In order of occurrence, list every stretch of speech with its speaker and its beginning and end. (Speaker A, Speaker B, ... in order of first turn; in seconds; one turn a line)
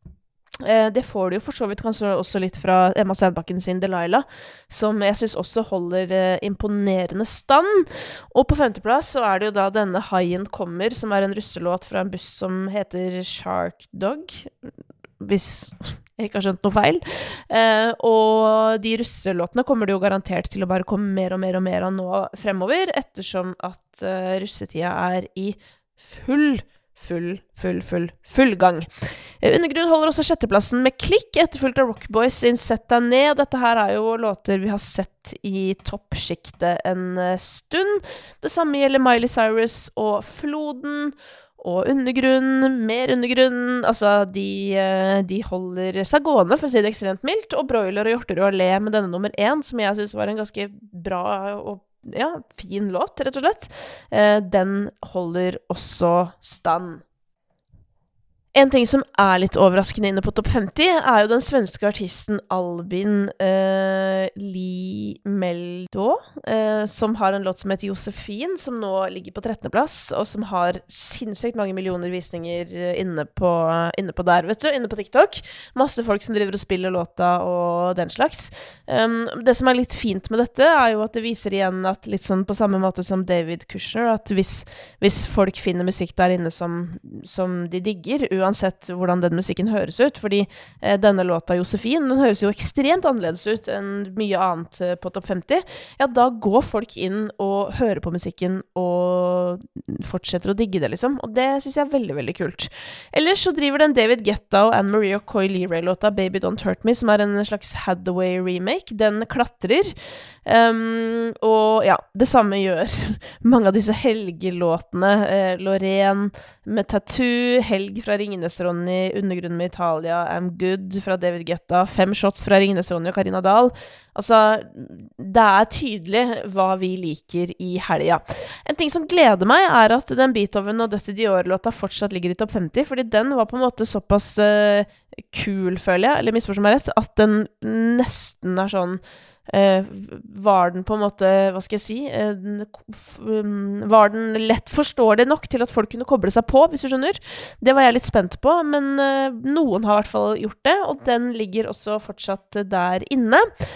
Speaker A: 0.6-14.5
Speaker A: 15.2-28.9
Speaker A: 29.4-57.0
Speaker A: 58.5-109.9
Speaker A: 110.5-153.5